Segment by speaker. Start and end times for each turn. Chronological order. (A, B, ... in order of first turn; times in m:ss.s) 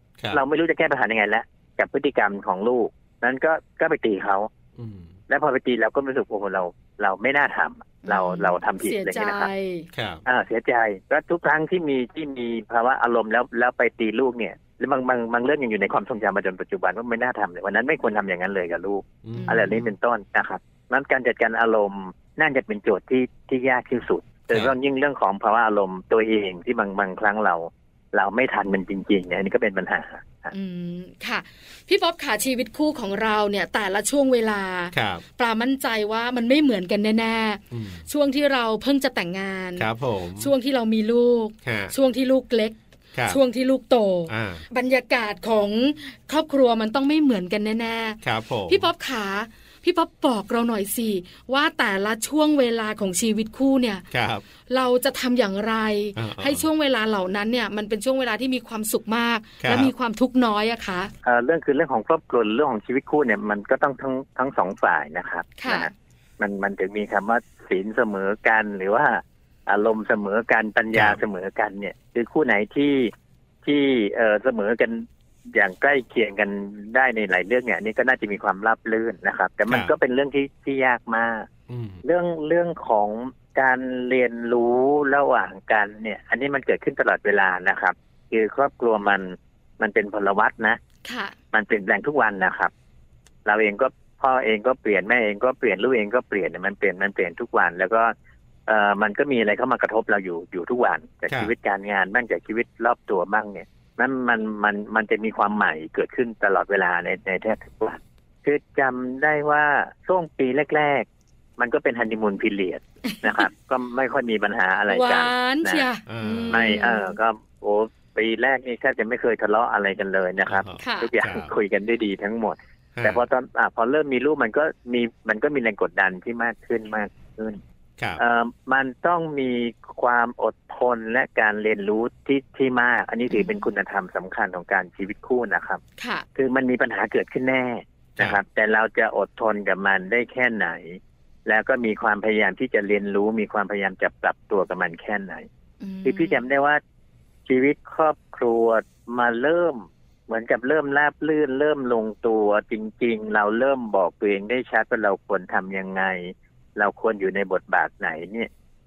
0:00.3-0:04.5 A
0:04.8-0:05.1 B
0:05.3-0:09.5 A
0:08.0-0:09.9 C
0:09.9-0:10.2 B
0:10.2-0:30.5 A
0:19.2-0:19.8 B
0:19.3-0:19.8 C
0:30.5-0:39.9 C
0:34.9-0:35.2 B
0:37.7-0:38.0 B
0:39.8-0:40.5 B
0:40.4-0:54.0 C
0:41.6-0:41.9 B
0:44.3-0:44.6 B
0:48.2-0:48.9 B
0:54.1-0:54.4 B
0:54.7-1:01.1 C
0:56.2-0:56.6 B
0:59.6-0:59.9 B
1:01.2-1:13.1 A
1:05.6-1:05.9 C
1:10.9-1:11.2 B
1:13.6-1:21.5 A
1:19.7-1:19.9 B
1:21.7-1:22.0 B
1:22.0-1:30.8 A
1:31.0-1:31.3 C
1:31.5-1:32.7 A
1:33.4-1:38.1 A
1:38.7-1:51.0 A
1:51.6-1:55.8 A
1:53.0-1:53.5 C
1:54.9-1:57.2 C
1:56.0-1:56.8 B
1:56.5-2:07.6 A
2:00.4-2:01.5 B
2:00.8-2:01.1 C
2:02.9-2:03.2 B
2:08.2-2:15.8 A
2:13.3-2:13.7 C
2:16.0-2:16.2 C
2:16.3-2:25.5 A
2:25.8-2:26.4 C
2:26.0-2:26.8 A
2:27.4-2:38.5 A